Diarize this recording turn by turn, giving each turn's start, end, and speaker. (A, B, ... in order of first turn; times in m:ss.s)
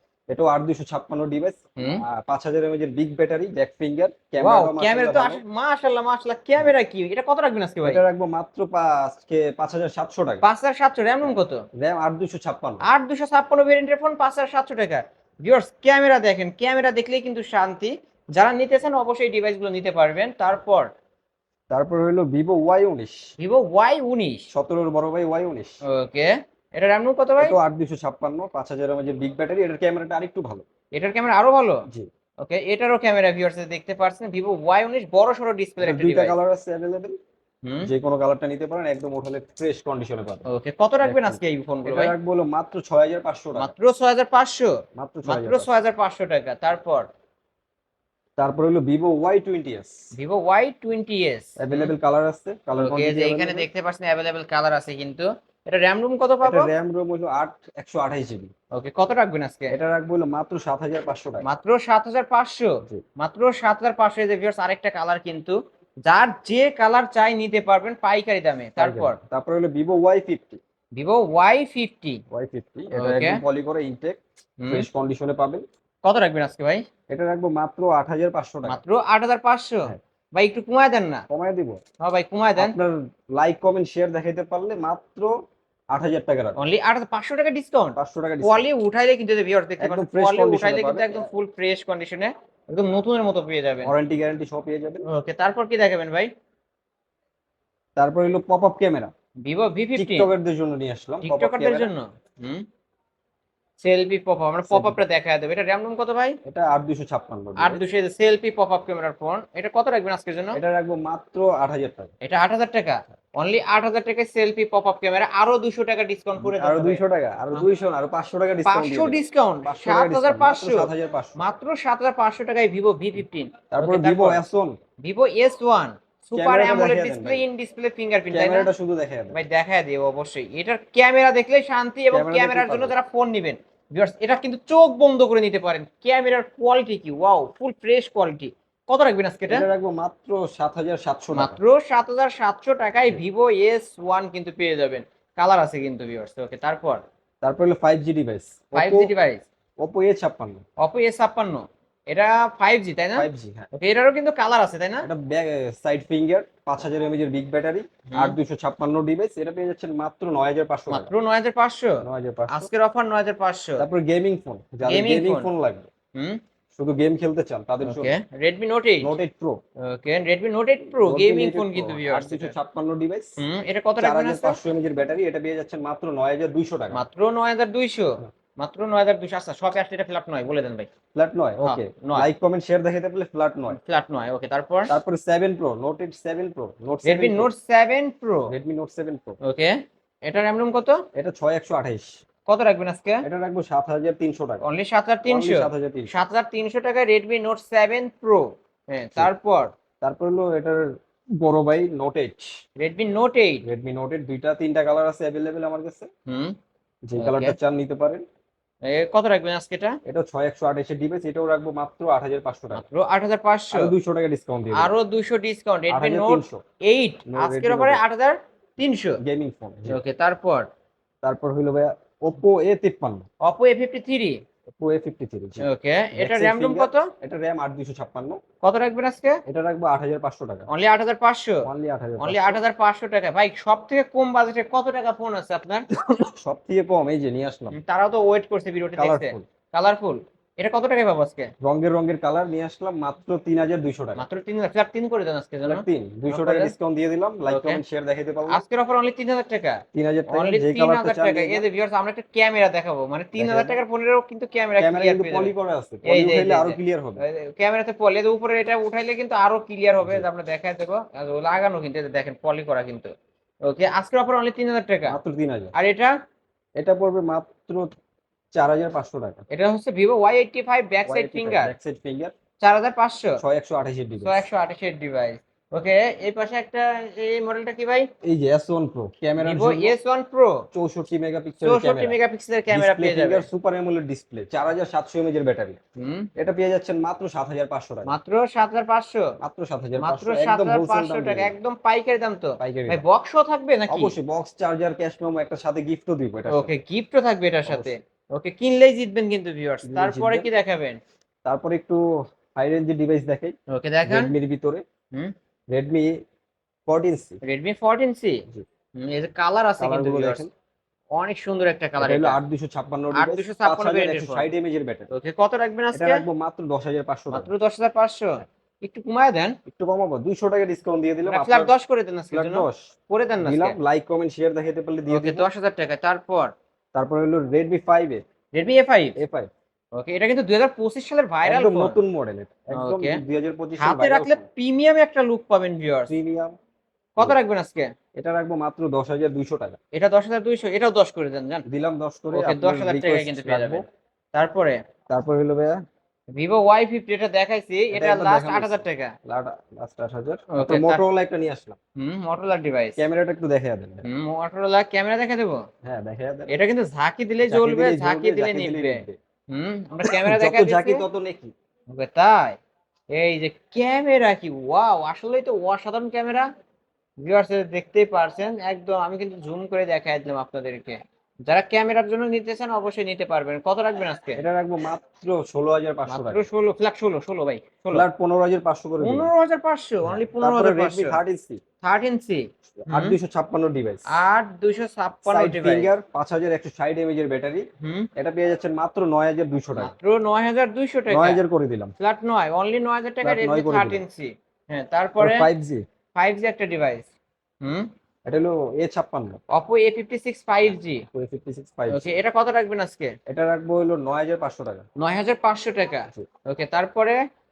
0:00.3-0:05.4 A
0:01.8-0:02.0 B
0:04.4-0:08.0 B
0:07.8-0:10.4 A
0:10.4-0:11.6 B
0:11.2-0:12.8 A
0:12.8-0:20.9 B
0:21.7-0:23.2 A
0:23.4-0:24.5 B
0:24.5-0:25.8 A
0:25.9-0:27.6 B
0:27.4-0:30.6 A
0:30.9-0:31.8 B
0:32.4-0:36.4 B
0:35.8-0:37.2 A
0:37.6-0:37.9 B
0:37.8-0:40.5 A
0:40.5-0:42.1 B
0:41.0-0:43.7 A
0:43.6-0:47.1 B
0:45.0-0:45.7 A
0:48.4-0:50.0 A
0:50.1-0:51.9 B
0:51.6-0:53.7 A
0:52.8-0:56.7 B
0:56.4-0:58.5 A
0:58.7-0:59.8 B
0:59.7-1:01.5 A
1:01.4-1:09.2 B
1:08.8-1:10.6 A
1:11.0-1:12.2 B
1:12.3-1:15.6 A
1:12.9-1:13.4 B
1:14.6-1:14.9 B
1:16.0-1:16.9 B
1:17.1-1:18.8 A
1:18.6-1:21.3 B
1:21.3-1:21.8 A
1:22.0-1:22.8 B
1:22.6-1:25.3 A
1:25.9-1:26.6 A
1:26.6-1:33.9 B
1:28.0-1:28.7 A
1:29.8-1:31.3 A
1:33.8-1:35.1 A
1:35.1-1:36.3 B
1:38.0-1:39.1 A
1:39.4-1:40.3 B
1:40.0-1:41.9 A
1:41.2-1:42.6 B
1:43.8-1:46.4 B
1:44.7-1:45.0 A
1:46.4-1:47.8 A
1:47.6-1:50.6 B
1:50.5-1:52.1 A
1:52.2-1:57.0 B
1:56.4-2:01.4 A
1:58.7-2:04.4 B
2:03.7-2:04.8 A
2:05.0-2:08.7 B
2:06.4-2:07.4 A
2:08.3-2:09.4 A
2:09.3-2:19.7 B
2:12.1-2:13.0 A
2:19.5-2:21.6 A
2:21.3-2:27.0 B
2:27.4-2:29.1 A
2:28.8-2:29.4 B
2:29.8-2:30.6 A
2:30.8-2:35.1 B
2:33.2-2:33.7 A
2:35.0-2:41.1 A
2:38.1-2:38.4 B
2:40.9-2:43.8 B
2:42.0-2:42.7 A
2:43.8-2:45.9 A
2:44.9-2:45.5 B
2:46.2-2:46.4 B
2:46.8-2:48.1 A
2:47.8-2:49.1 B
2:49.0-2:49.6 A
2:49.8-2:52.6 B
2:50.9-2:53.4 A
2:53.4-2:54.6 B
2:54.0-2:57.0 A
2:56.9-3:00.9 B
3:01.2-3:03.8 A
3:01.6-3:02.3 B
3:03.7-3:04.9 B
3:04.9-3:07.5 A
3:07.0-3:08.5 B
3:08.5-3:09.4 A
3:09.4-3:11.0 B
3:11.2-3:12.1 A
3:12.5-3:13.3 B
3:13.2-3:14.6 A
3:14.6-3:19.8 B
3:15.2-3:16.1 A
3:20.0-3:20.8 A
3:21.4-3:22.5 A
3:22.8-3:23.6 B
3:23.6-3:26.1 A
3:26.3-3:26.6 B
3:27.1-3:28.2 A
3:27.2-3:27.6 B
3:28.9-3:30.0 B
3:30.0-3:32.8 A
3:32.7-3:33.9 B
3:33.7-3:34.9 A
3:34.7-3:39.2 B
3:35.9-3:36.6 A
3:37.3-3:38.0 A
3:39.2-3:40.0 A
3:39.9-3:40.7 B
3:41.2-3:43.3 A
3:43.4-3:44.4 B
3:44.7-3:48.4 A
3:45.6-3:47.1 B
3:48.6-3:49.4 B
3:49.5-3:50.7 A
3:50.7-3:55.9 B
3:51.6-3:52.6 A
3:56.1-3:57.8 A
3:57.7-4:01.5 B
3:59.0-3:59.5 A
4:01.6-4:04.2 A
4:04.2-4:06.7 B
4:05.7-4:08.6 A
4:07.5-4:07.8 B
4:08.5-4:23.1 B
4:09.9-4:11.7 A
4:13.4-4:13.8 A
4:14.8-4:17.2 A
4:23.6-4:25.2 B
4:25.1-4:25.8 A
4:25.8-4:26.2 B
4:26.8-4:27.9 A
4:28.5-4:29.4 A
4:29.5-4:31.7 B
4:31.1-4:32.3 A
4:32.6-4:33.4 B
4:33.4-4:34.4 A
4:34.2-4:38.1 B
4:38.2-4:40.0 A
4:39.4-4:40.7 B
4:40.7-4:42.2 A
4:41.6-4:43.5 B
4:42.7-4:45.8 A
4:46.0-4:46.3 B
4:46.4-4:48.1 A
4:48.1-4:49.4 B
4:49.4-4:51.5 A
4:50.0-4:54.2 B
4:52.6-4:53.0 A
4:53.9-4:56.7 A
4:56.5-5:01.0 B
4:57.7-4:58.0 A
4:59.8-5:00.5 A
5:01.4-5:02.0 A
5:02.5-5:03.5 A
5:03.7-5:04.3 B
5:04.0-5:04.8 A
5:05.7-5:06.1 A
5:06.9-5:07.4 A
5:07.4-5:10.5 B
5:09.8-5:10.5 A
5:11.1-5:12.4 B
5:12.0-5:15.1 A
5:13.1-5:14.5 B
5:15.1-5:16.2 B
5:15.9-5:17.5 A
5:17.3-5:19.6 B
5:19.7-5:21.7 A
5:21.3-5:23.8 B
5:22.3-5:25.5 A
5:25.1-5:26.5 B
5:26.9-5:28.2 A
5:28.5-5:29.2 B
5:29.2-5:29.5 A
5:29.9-5:32.0 B
5:31.4-5:34.4 A
5:32.7-5:33.2 B
5:33.8-5:36.1 B
5:36.1-5:36.6 A
5:37.2-5:37.9 B
5:38.2-5:39.8 A
5:39.9-5:41.7 B
5:41.7-5:43.8 A
5:42.3-5:44.8 B
5:45.1-5:45.8 A
5:46.3-5:49.2 B
5:47.9-5:51.8 A
5:50.5-5:51.0 B
5:52.0-5:53.0 B
5:53.0-5:54.1 A
5:54.0-5:55.6 B
5:55.8-5:56.5 A
5:56.5-6:01.0 B
5:57.5-5:59.2 A
6:00.0-6:01.5 A
6:01.9-6:02.6 B
6:03.1-6:06.5 B
6:07.2-6:14.4 B
6:14.4-6:16.4 A
6:16.1-6:18.1 B
6:17.9-6:19.3 A
6:19.0-6:21.2 B
6:20.0-6:21.6 A
6:21.8-6:23.2 B
6:22.8-6:24.1 A
6:24.1-6:25.9 B
6:25.3-6:29.9 A
6:27.8-6:28.1 B
6:29.8-6:31.4 B
6:31.1-6:31.9 A
6:32.0-6:35.5 B
6:33.2-6:34.0 A
6:35.2-6:35.8 A
6:36.2-6:37.1 B
6:37.6-6:37.9 B
6:38.3-6:39.4 A
6:39.5-6:41.1 B
6:41.1-6:42.2 A
6:41.9-6:43.2 B
6:43.3-6:44.8 A
6:45.0-6:47.2 B